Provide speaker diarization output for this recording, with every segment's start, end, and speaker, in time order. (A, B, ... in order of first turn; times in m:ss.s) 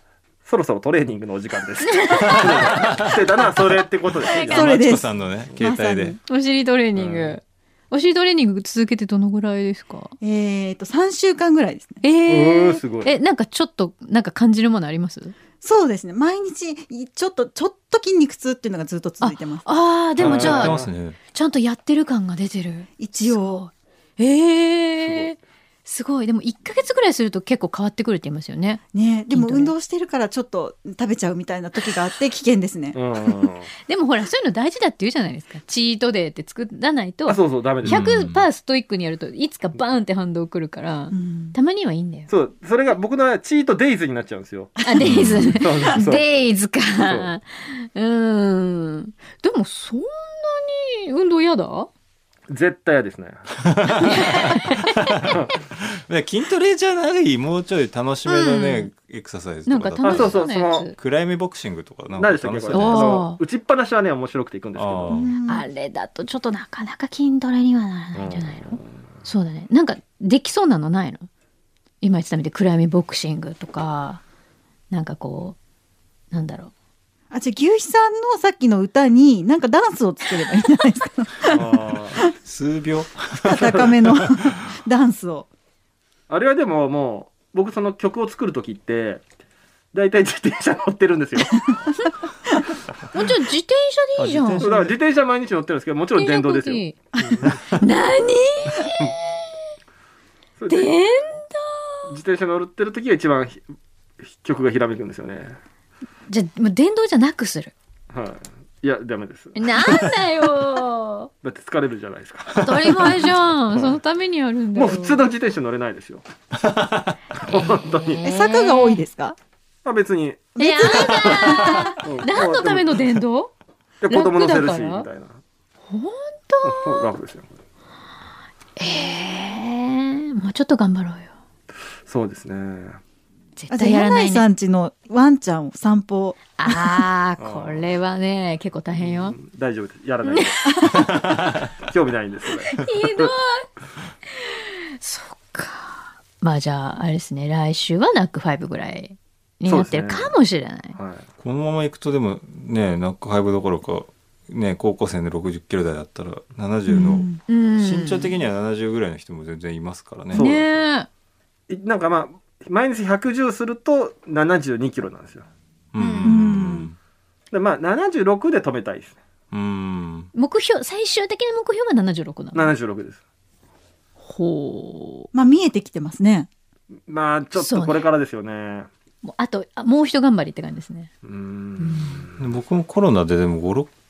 0:00.4-0:04.8 A
0:01.9-0:02.7 B
0:02.4-0:03.1 C
0:04.3-0:04.5 B
0:04.4-0:06.2 C
0:04.4-0:06.2 D
0:06.2-0:10.1 B
0:06.9-0:07.4 A
0:10.2-0:12.0 D
0:12.0-0:15.3 B
0:12.3-0:13.1 A
0:15.6-0:19.6 D
0:19.2-0:20.8 B
0:20.2-0:21.2 C
0:20.2-0:20.9 A
0:21.3-0:29.7 B
0:23.0-0:23.6 D
0:25.0-0:25.3 A
0:28.9-0:33.0 D
0:32.9-0:33.7 A
0:33.9-0:42.3 B
0:37.3-0:38.2 A
0:37.8-0:38.4 C
0:41.1-0:41.6 D
0:42.3-0:44.8 A
0:44.8-0:51.9 B
0:45.0-0:45.6 C
0:45.5-0:46.2 A
0:47.0-0:47.3 A
0:52.5-0:53.5 A
0:53.6-1:03.2 C
0:53.9-0:55.3 B
0:58.2-0:58.9 B
0:59.6-1:00.9 B
1:00.0-1:00.9 A
1:02.2-1:05.2 A
1:02.7-1:03.4 B
1:04.7-1:05.4 C
1:05.1-1:05.6 D
1:05.5-1:11.3 B
1:08.1-1:08.9 A
1:12.0-1:14.2 B
1:14.9-1:15.6 B
1:16.3-1:16.7 B
1:17.3-1:22.2 D
1:21.4-1:22.2 A
1:22.3-1:24.5 C
1:23.4-1:25.5 D
1:23.6-1:23.8 A
1:26.3-1:29.2 A
1:29.9-1:31.8 A
1:33.1-1:34.6 B
1:34.2-1:34.9 C
1:34.6-1:37.6 A
1:36.2-1:37.0 B
1:37.7-1:39.5 B
1:40.6-1:40.9 A
1:40.7-1:42.1 B
1:42.1-1:43.6 A
1:44.2-1:45.6 A
1:46.3-1:47.7 B
1:48.1-1:49.7 A
1:49.6-1:51.3 B
1:51.4-1:54.0 A
1:52.6-1:55.2 B
1:52.6-1:53.0 C
1:54.7-1:56.2 A
1:56.6-1:57.2 C
1:57.4-1:59.0 B
1:57.5-1:58.2 A
1:58.2-1:59.4 D
1:59.8-2:03.0 A
2:00.6-2:01.9 D
2:00.6-2:03.5 B
2:04.0-2:05.4 A
2:04.1-2:05.1 B
2:05.9-2:07.1 B
2:06.6-2:07.5 A
2:08.8-2:11.3 B
2:12.1-2:13.0 A
2:13.6-2:14.4 B
2:13.7-2:17.0 D
2:16.6-2:19.4 B
2:17.4-2:17.8 A
2:19.0-2:23.3 A
2:20.2-2:20.5 B
2:20.9-2:21.6 C
2:22.7-2:23.7 B
2:24.4-2:31.0 B
2:29.7-2:30.3 A
2:30.9-2:31.2 A
2:31.4-2:40.5 C
2:36.9-2:37.4 D
2:37.4-2:38.3 B
2:40.3-2:40.7 A
2:40.3-2:41.1 B
2:41.7-2:45.4 A
2:45.9-2:47.0 C
2:46.0-2:46.6 B
2:46.2-2:46.9 D
2:47.5-2:49.2 A
2:49.5-2:50.3 C
2:50.3-2:52.7 B
2:52.5-2:53.2 A
2:54.2-2:55.3 B
2:55.3-2:56.5 D
2:57.1-2:58.9 A
2:57.6-2:58.1 B
2:59.2-3:01.1 B
3:01.2-3:02.4 A
3:01.8-3:02.2 B
3:02.3-3:03.9 C